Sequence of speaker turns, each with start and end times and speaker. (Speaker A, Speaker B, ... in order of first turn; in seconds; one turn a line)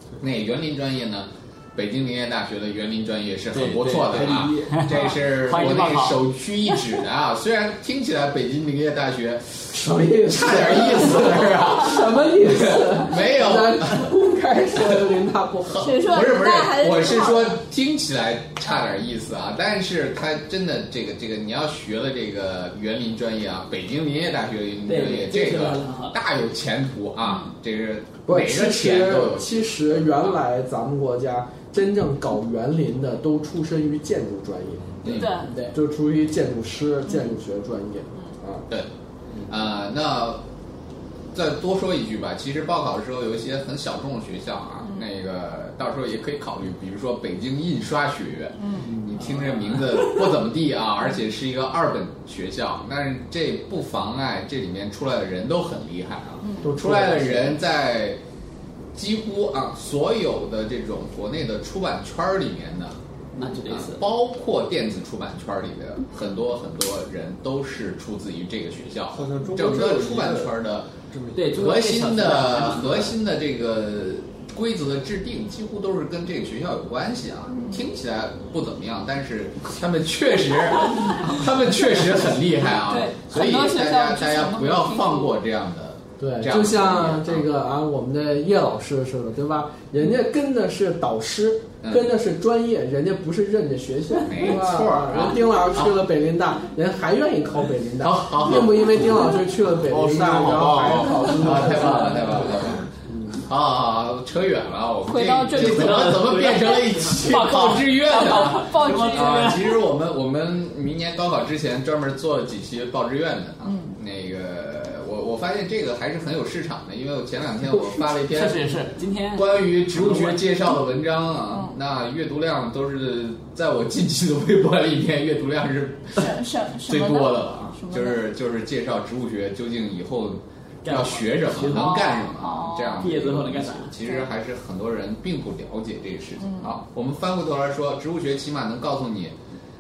Speaker A: 0.2-14.1
Speaker B: 3.5-6.2
Speaker C: 9.7-15.8
Speaker A: 15.7-30.4
Speaker D: 15.8-17.6
Speaker B: 24.9-26.2
Speaker D: 27.2-27.5
Speaker C: 28.3-35.1
Speaker A: 35.0-35.4
Speaker D: 35.1-35.5
Speaker B: 35.4-35.8
Speaker C: 35.7-38.6
Speaker A: 39.5-40.4
Speaker A: 41.3-58.2
Speaker D: 48.6-48.9
Speaker D: 56.4-56.7
Speaker C: 56.6-57.6
Speaker A: 58.9-63.0
Speaker B: 63.4-64.0
Speaker A: 63.7-70.9
Speaker E: 69.1-70.5
Speaker E: 71.1-71.5
Speaker B: 71.3-73.2
Speaker A: 71.5-87.5
Speaker D: 77.5-77.8
Speaker D: 82.7-85.3
Speaker C: 86.2-103.4
Speaker A: 91.8-92.1
Speaker A: 94.2-96.0
Speaker A: 98.0-98.9
Speaker E: 99.9-101.7
Speaker A: 100.8-102.9
Speaker A: 103.4-118.6
Speaker D: 105.1-106.3
Speaker B: 105.5-109.8
Speaker D: 107.2-109.6
Speaker D: 113.6-113.9
Speaker B: 118.3-120.4
Speaker A: 119.3-126.3
Speaker D: 121.5-121.8
Speaker D: 126.2-128.2
Speaker A: 126.9-139.4
Speaker B: 130.8-132.0
Speaker D: 131.7-133.0
Speaker B: 133.0-133.9
Speaker D: 136.4-136.7